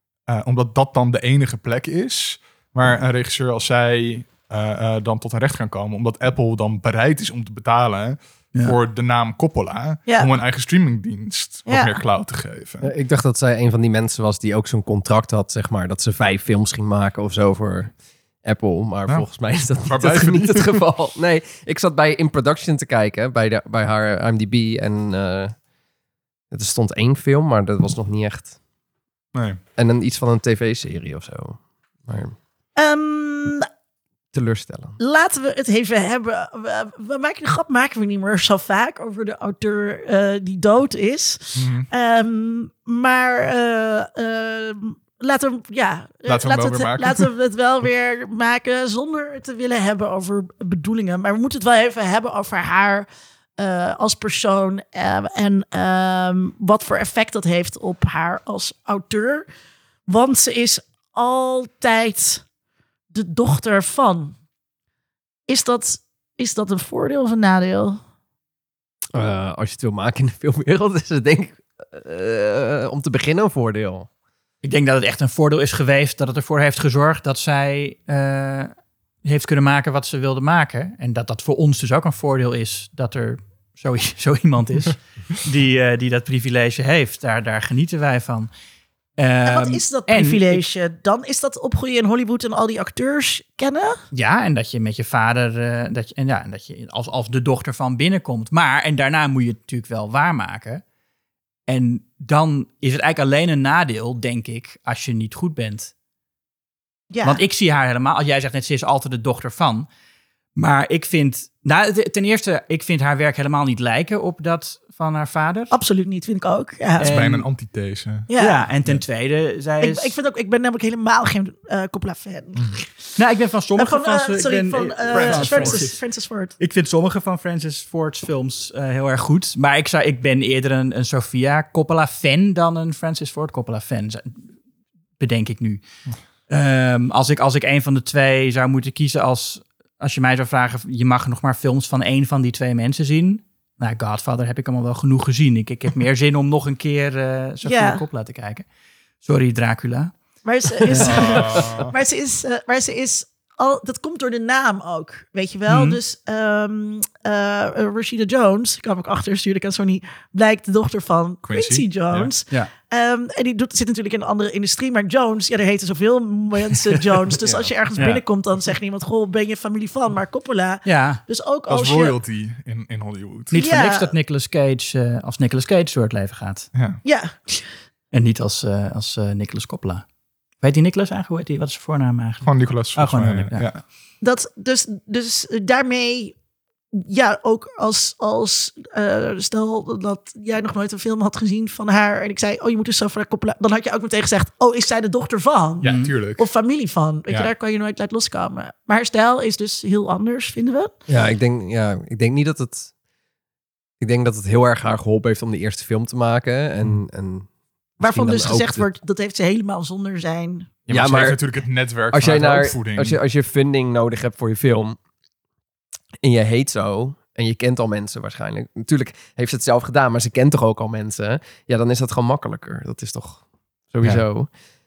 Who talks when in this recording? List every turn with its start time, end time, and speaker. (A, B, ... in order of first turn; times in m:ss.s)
0:00.3-0:12.9 A
0:11.7-0:12.0 B
0:12.8-0:25.6 C
0:19.1-0:20.8 A
0:26.5-0:28.5 C
0:29.3-0:29.6 A
0:29.8-0:32.4 C
0:32.8-0:33.6 B
0:34.3-0:35.0 C
0:35.0-0:53.0 B
0:41.6-0:41.9 A
0:46.3-0:47.3 A
0:53.6-0:59.4 B
1:00.1-1:02.4 B
1:03.1-1:04.4 B
1:05.5-1:08.0 B
1:09.1-1:14.1 C
1:14.6-1:18.7 D
1:19.2-1:28.5 D
1:29.2-1:30.6 D
1:29.4-1:34.0 B
1:34.1-1:40.8 D
1:41.7-1:45.9 D
1:47.1-1:47.4 B
1:47.2-1:49.9 D
1:50.6-1:55.7 D
1:55.7-1:57.1 B
1:57.0-1:57.4 D
1:57.0-1:58.3 A
1:58.3-1:58.6 B
1:58.4-2:00.1 D
1:59.8-2:03.1 B
2:03.2-2:06.0 D
2:03.8-2:06.5 B
2:05.1-2:05.9 A
2:06.6-2:14.4 D
2:15.2-2:15.8 D
2:16.5-2:28.6 D
2:27.6-2:28.0 B
2:29.2-2:30.1 D
2:30.4-2:52.1 B
2:30.7-2:31.2 D
2:31.0-2:31.8 C
2:31.0-2:31.9 A
2:35.7-2:36.0 D
2:41.5-2:42.3 A
2:47.4-2:47.7 C
2:48.0-2:48.2 D
2:50.8-2:51.2 D
2:51.7-2:53.6 A
2:53.5-2:56.7 D
2:53.5-2:54.1 B
2:56.7-2:57.0 A
2:57.0-2:57.6 B
2:58.1-3:00.0 D
3:00.6-3:03.7 D
3:02.4-3:03.8 A
3:04.2-3:06.3 B
3:06.9-3:21.0 B
3:15.8-3:16.5 A
3:15.8-3:16.1 D
3:21.1-3:22.9 C
3:24.0-3:29.0 C
3:28.0-3:30.7 B
3:30.9-3:33.2 A
3:30.9-3:31.4 C
3:32.1-3:35.0 C
3:36.2-3:44.5 C